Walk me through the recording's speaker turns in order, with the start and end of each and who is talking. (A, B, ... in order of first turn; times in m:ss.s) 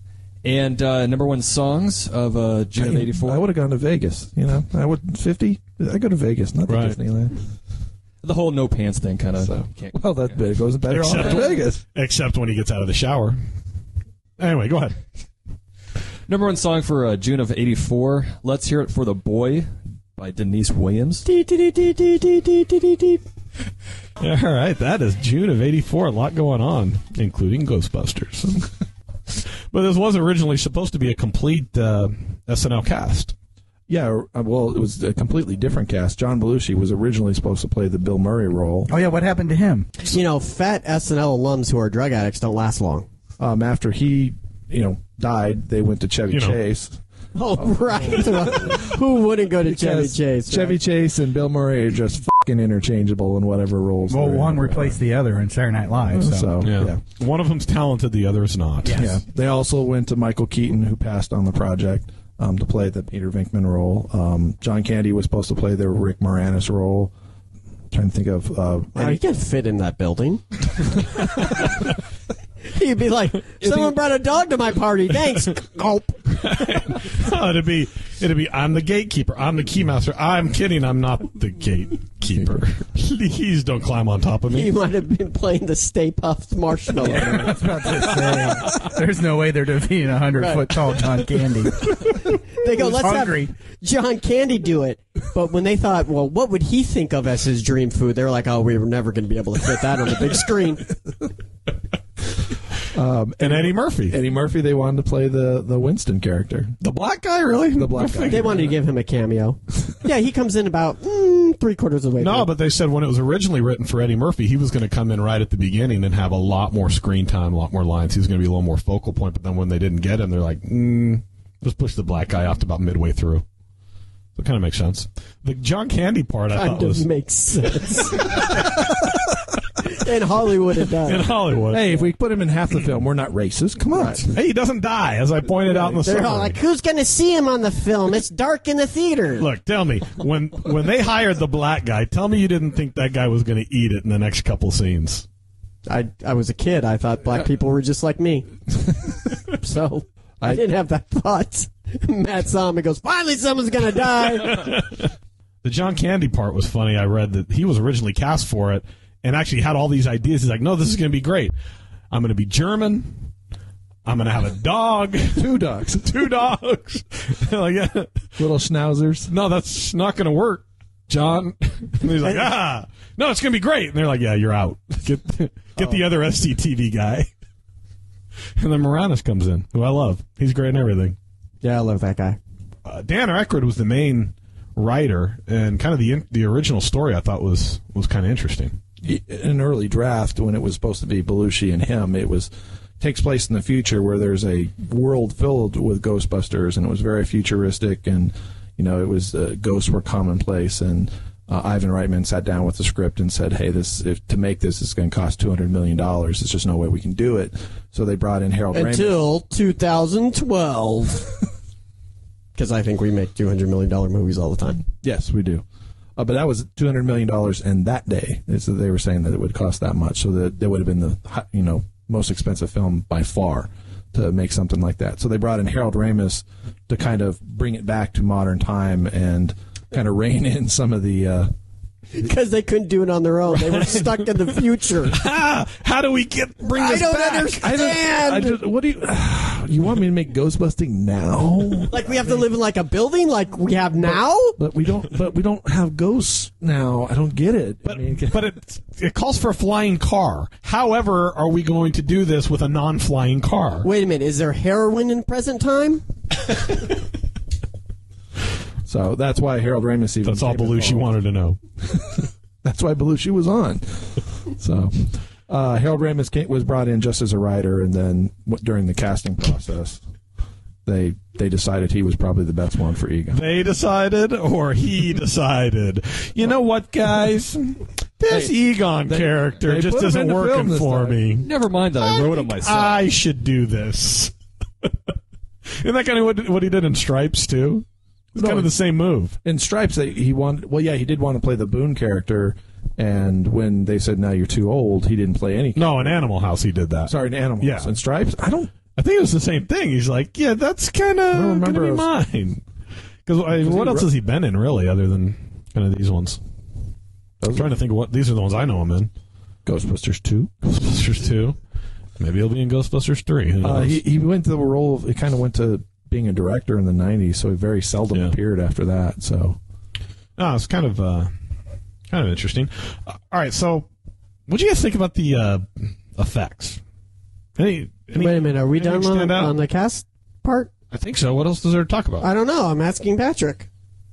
0:00.4-0:03.4 A
0:02.8-0:07.4 B
0:06.7-0:07.0 C
0:08.2-0:10.4 A
0:09.4-0:11.8 B
0:10.8-0:13.4 C
0:11.1-0:11.4 A
0:14.4-0:15.0 C
0:16.3-0:21.2 A
0:21.2-0:23.2 D
0:24.2-0:28.6 C
0:29.7-0:33.3 C
0:33.9-0:38.9 B
0:38.9-0:39.9 E
0:40.0-0:43.1 D
0:43.4-0:47.0 B
0:46.3-0:46.6 C
0:47.3-0:50.8 D
0:47.6-0:48.8 B
0:49.6-0:55.0 B
0:54.1-0:56.5 E
0:56.1-0:57.0 B
0:56.6-0:59.0 C
0:58.8-0:59.2 E
0:58.9-1:07.1 B
1:07.9-1:09.2 B
1:08.9-1:10.4 D
1:12.7-1:16.8 D
1:16.4-1:24.7 C
1:24.5-1:27.5 D
1:27.0-1:33.5 E
1:30.4-1:30.6 D
1:32.5-1:40.9 D
1:42.9-1:46.8 B
1:43.4-1:44.2 C
1:46.8-1:48.7 C
1:47.7-1:48.6 B
1:48.3-1:52.5 D
1:52.2-2:03.4 C
2:04.4-2:07.0 C
2:06.5-2:08.5 D
2:09.8-2:11.3 D
2:11.0-2:12.0 C
2:11.7-2:14.3 B
2:13.9-2:14.2 D
2:14.3-2:16.6 C
2:15.7-2:19.5 D
2:19.4-2:25.2 C
2:25.8-2:28.8 D
2:29.4-2:34.8 D
2:34.5-2:35.1 C
2:35.6-2:41.5 C
2:42.1-2:43.3 C
2:44.0-2:45.5 C
2:45.3-2:46.3 B
2:46.0-2:48.3 C
2:48.4-2:49.3 B
2:49.3-2:57.3 C
2:58.6-3:01.2 C
3:01.6-3:02.4 D
3:02.8-3:08.8 C
3:09.0-3:29.3 B
3:28.7-3:31.3 D
3:32.6-3:34.8 D
3:35.0-3:35.6 B
3:36.2-3:51.5 B
3:52.1-3:55.2 D
3:53.7-3:54.1 C
3:55.1-3:57.6 C
3:56.6-3:58.6 D
3:57.4-4:02.4 B
4:01.9-4:04.6 D
4:04.0-4:08.5 B
4:07.8-4:13.9 C
4:13.8-4:16.0 D
4:18.8-4:21.1 B
4:20.2-4:21.6 C
4:22.1-4:30.0 B
4:30.8-4:33.4 B
4:33.3-4:41.5 C
4:39.1-4:41.2 B
4:41.4-4:43.0 A
4:42.4-4:44.3 C
4:45.8-4:49.4 C
4:48.4-4:48.7 B
4:49.4-4:56.0 B
4:55.7-4:57.9 C
4:57.0-4:58.7 B
4:58.9-5:02.6 C
5:01.3-5:02.1 B
5:03.2-5:06.4 C
5:03.6-5:04.1 B
5:07.4-5:07.7 B
5:07.5-5:09.1 C
5:09.6-5:10.9 B
5:10.7-5:11.6 C
5:12.2-5:14.0 C
5:13.6-5:19.6 B
5:20.4-5:21.3 C
5:22.1-5:23.9 C
5:24.5-5:26.8 C
5:27.6-5:29.5 C
5:28.2-5:30.7 D
5:30.9-5:32.3 C
5:32.2-5:33.7 D